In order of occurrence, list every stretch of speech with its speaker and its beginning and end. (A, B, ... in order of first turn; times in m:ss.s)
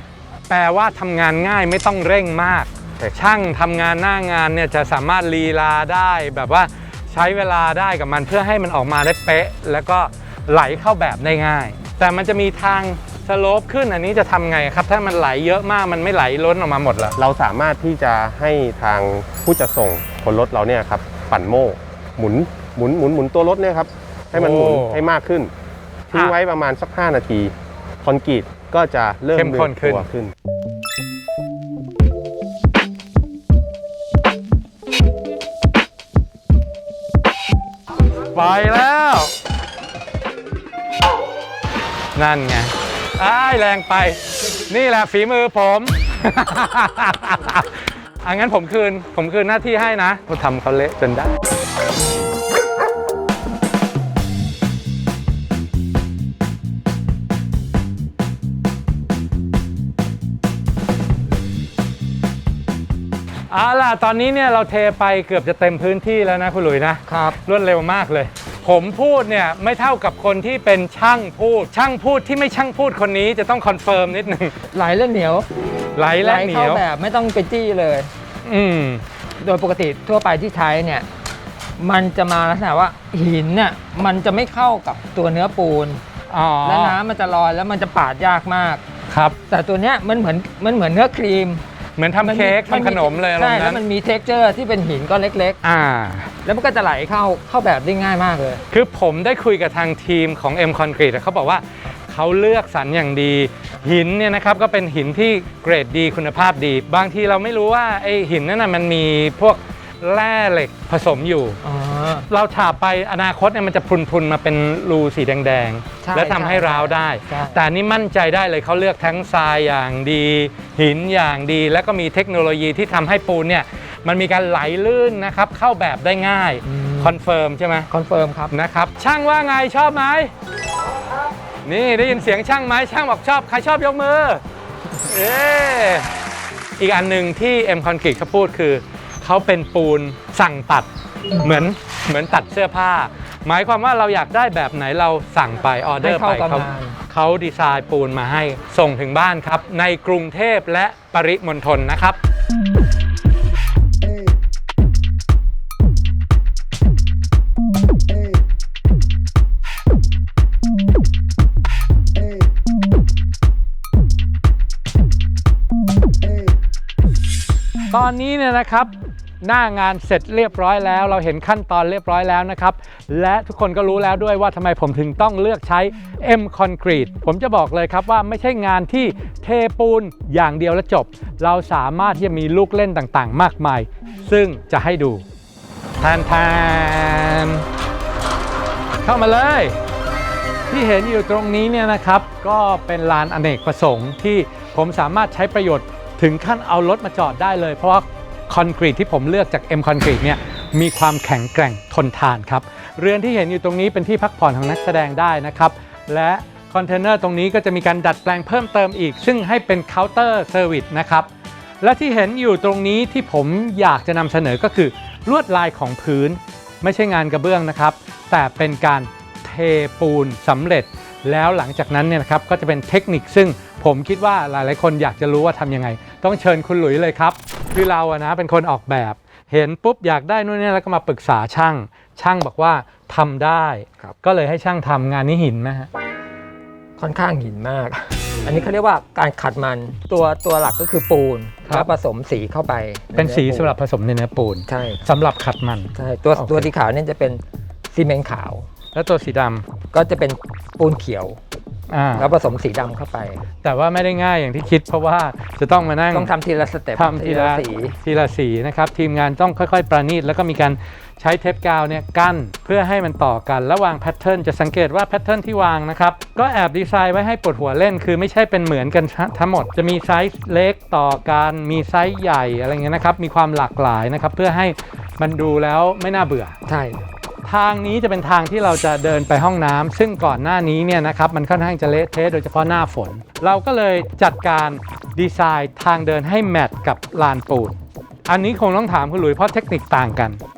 0:00.5-0:17.2 A
0:17.2-0:25.5 B
0:24.3-0:25.0 A
0:26.1-0:30.3 B
0:29.4-0:30.1 A
0:38.3-0:39.3 A
0:42.2-0:51.4 A
1:03.5-1:14.6 A
1:07.1-1:07.4 C
1:14.7-1:15.5 C
1:16.0-1:16.8 A
1:16.2-1:18.1 C
1:18.4-1:19.0 A
1:19.4-1:21.1 C
1:21.8-1:26.0 C
1:26.3-1:27.0 A
1:26.6-1:28.8 C
1:29.1-1:29.4 A
1:29.5-1:31.6 C
1:32.0-1:33.8 A
1:32.2-1:35.6 C
1:35.6-1:36.3 A
1:36.4-1:38.6 C
1:38.7-1:51.6 A
1:51.6-1:52.3 C
1:52.3-2:07.9 A
1:56.0-1:57.6 C
2:06.6-2:07.2 C
2:07.9-2:08.5 C
2:08.5-2:10.3 A
2:11.6-2:14.4 A
2:15.0-2:16.1 A
2:16.8-2:20.9 A
2:21.4-2:32.2 A
2:26.0-2:27.0 C
2:47.9-3:05.2 A
3:06.0-3:07.6 A
3:09.0-3:09.8 A
3:10.7-3:31.3 A
3:31.8-3:55.9 A
3:57.0-4:03.8 C
4:03.2-4:06.7 A
4:04.7-4:05.1 C
4:06.0-4:08.7 C
4:09.0-4:09.6 A
4:09.9-4:11.4 C
4:11.9-4:12.3 A
4:12.2-4:13.4 C
4:13.6-4:16.3 A
4:16.1-4:18.0 C
4:17.0-4:36.6 A
4:36.7-4:37.1 C
4:37.4-4:50.4 A